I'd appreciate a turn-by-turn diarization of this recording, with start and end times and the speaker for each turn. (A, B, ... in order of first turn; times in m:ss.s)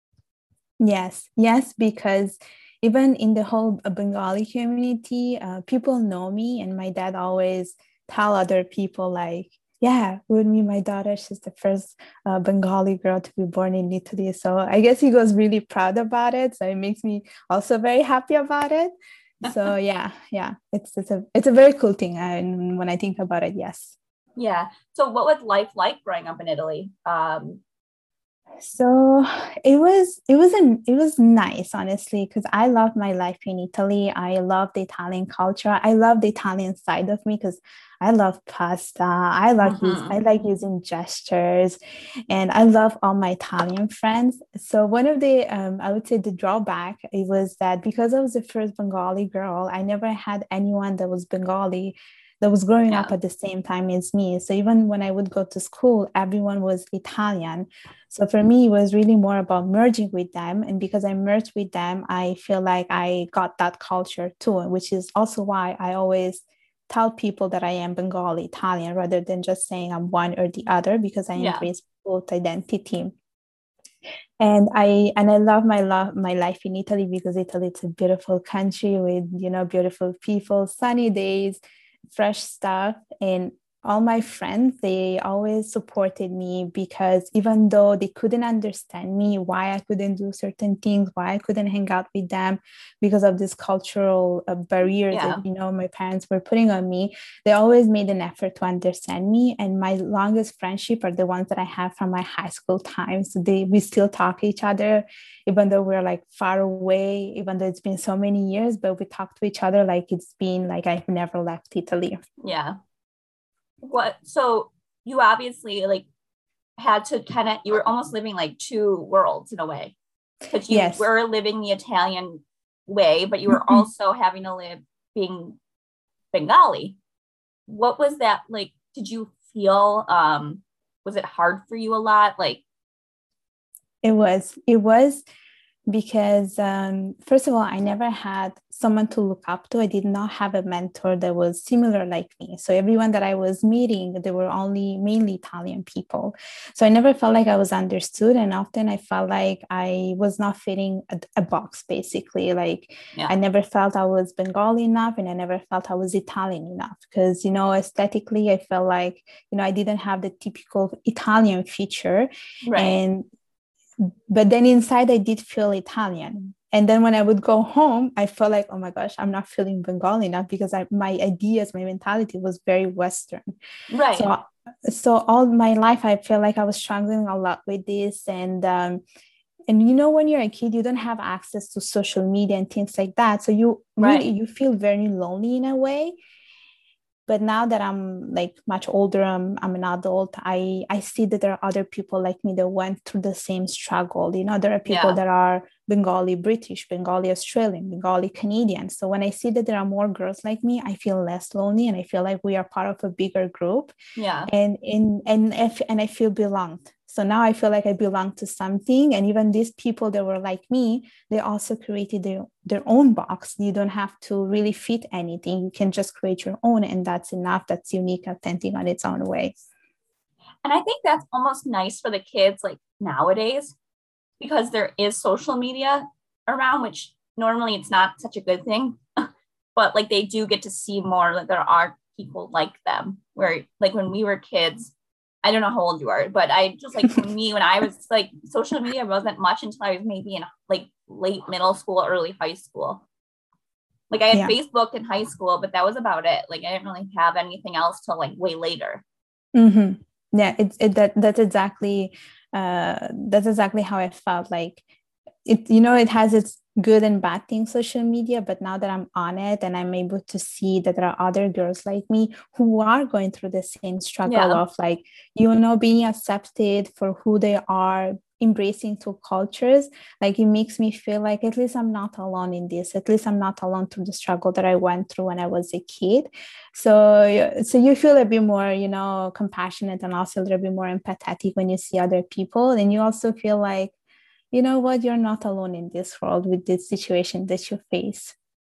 0:00.8-0:23.9 A
0:24.4-0:27.6 B
0:28.6-0:41.8 A
0:39.6-0:40.2 B
0:42.3-1:13.1 A
1:11.4-1:11.7 B
1:14.4-1:52.2 A
1:35.1-1:35.4 B
1:52.4-1:52.8 B
1:53.8-1:56.0 B
1:56.8-1:59.9 B
2:00.5-2:05.6 B
2:00.7-2:01.0 A
2:03.5-2:03.8 A
2:06.3-2:07.0 B
2:07.7-2:12.6 B
2:14.0-2:15.2 A
2:15.9-2:43.2 A
2:42.6-2:43.0 B
2:44.0-2:53.5 A
2:53.9-2:54.3 B
2:54.1-2:59.0 A
2:59.7-3:06.1 A
3:04.0-3:04.2 B
3:07.3-3:23.9 A
3:14.9-3:15.2 B
3:24.2-3:24.5 B
3:24.5-3:39.5 A
3:40.6-3:43.7 B
3:44.4-3:54.9 B
3:55.4-4:03.0 B
4:04.1-4:09.0 B
4:09.5-4:14.8 A
4:15.4-4:43.9 A
4:24.2-4:24.6 B
4:44.5-4:48.3 A